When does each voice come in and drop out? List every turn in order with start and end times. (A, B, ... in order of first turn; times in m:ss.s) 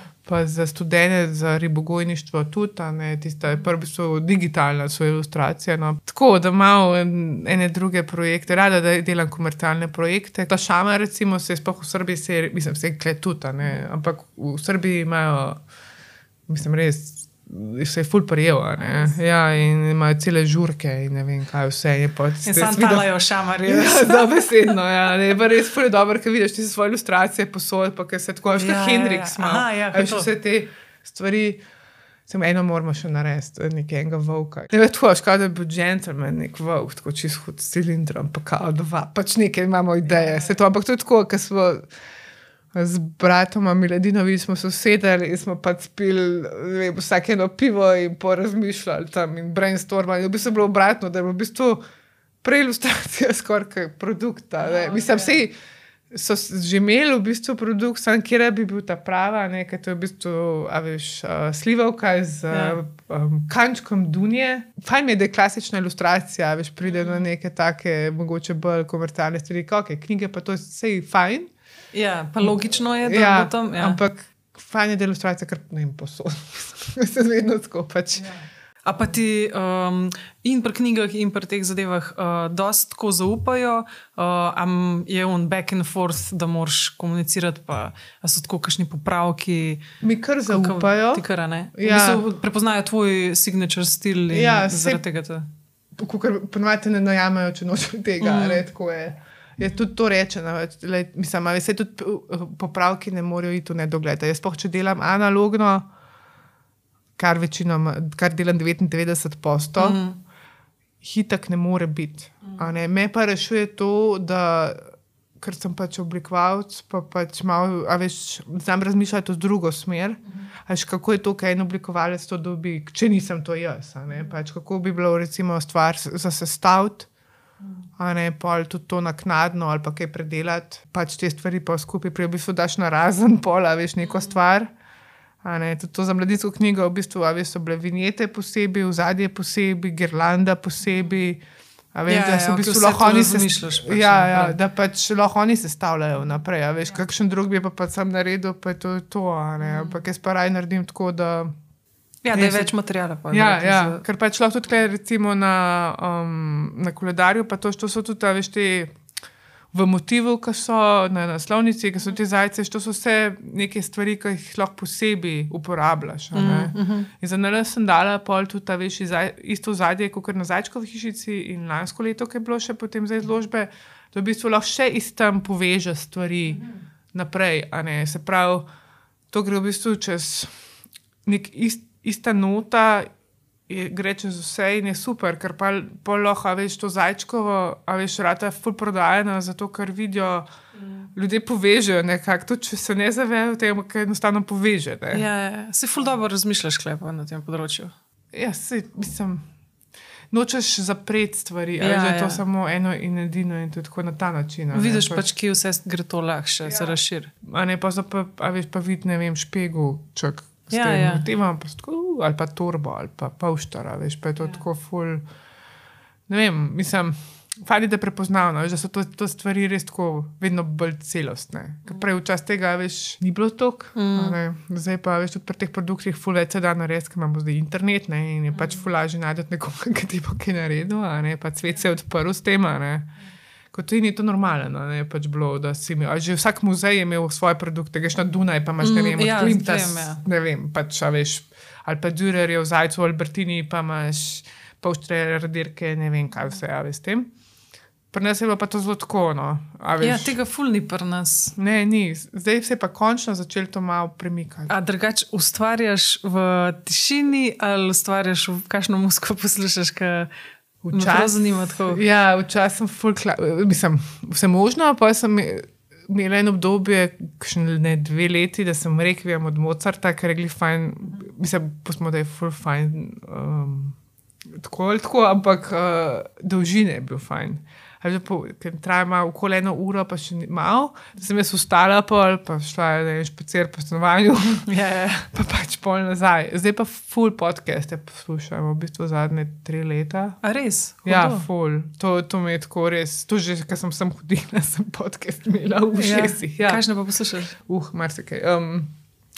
0:00.2-0:15.6 A
0:16.5-0:23.1 A
0:18.8-0:19.1 B
0:22.4-0:24.7 B
0:23.6-0:31.6 A
0:28.6-0:30.3 B
0:32.3-0:41.8 A
0:42.7-0:51.8 A
0:52.4-0:55.5 A
0:54.6-0:55.4 B
0:56.1-1:11.5 A
1:02.5-1:02.8 B
1:11.9-1:14.0 B
1:12.4-1:18.3 A
1:18.8-1:29.8 B
1:30.0-1:32.2 A
1:30.5-1:35.5 B
1:34.3-1:35.0 A
1:35.9-1:45.9 A
1:38.2-1:38.6 B
1:47.2-1:50.0 A
1:49.8-1:50.2 B
1:51.0-1:54.9 A
1:55.4-2:07.1 A
2:08.0-2:14.7 A
2:15.4-2:21.4 A
2:21.9-2:31.5 A
2:22.1-2:24.6 B
2:32.2-2:34.0 B
2:32.3-2:32.7 A
2:33.3-2:38.9 A
2:39.7-2:58.6 A
2:46.3-2:47.1 B
2:59.3-3:00.5 A
3:01.2-3:03.1 A
3:03.7-3:10.4 A
3:11.1-3:15.2 A
3:15.1-3:17.9 B
3:18.3-3:19.4 A
3:20.3-3:25.2 A
3:21.8-3:22.4 B
3:24.7-3:27.3 B
3:26.7-3:35.2 A
3:30.7-3:31.2 B
3:36.3-3:53.1 A
3:44.0-3:44.4 B
3:53.7-4:07.3 A
3:58.8-4:00.2 B
4:08.1-4:10.4 A
4:10.0-4:11.5 B
4:11.6-4:14.7 A
4:14.7-4:20.3 B
4:20.8-4:34.0 A
4:20.9-4:22.0 B
4:34.5-4:44.7 A
4:44.7-4:45.3 B
4:45.3-4:50.4 A
4:50.4-4:51.4 B
4:51.0-4:56.8 A
4:55.9-4:57.5 B
4:57.5-4:58.9 A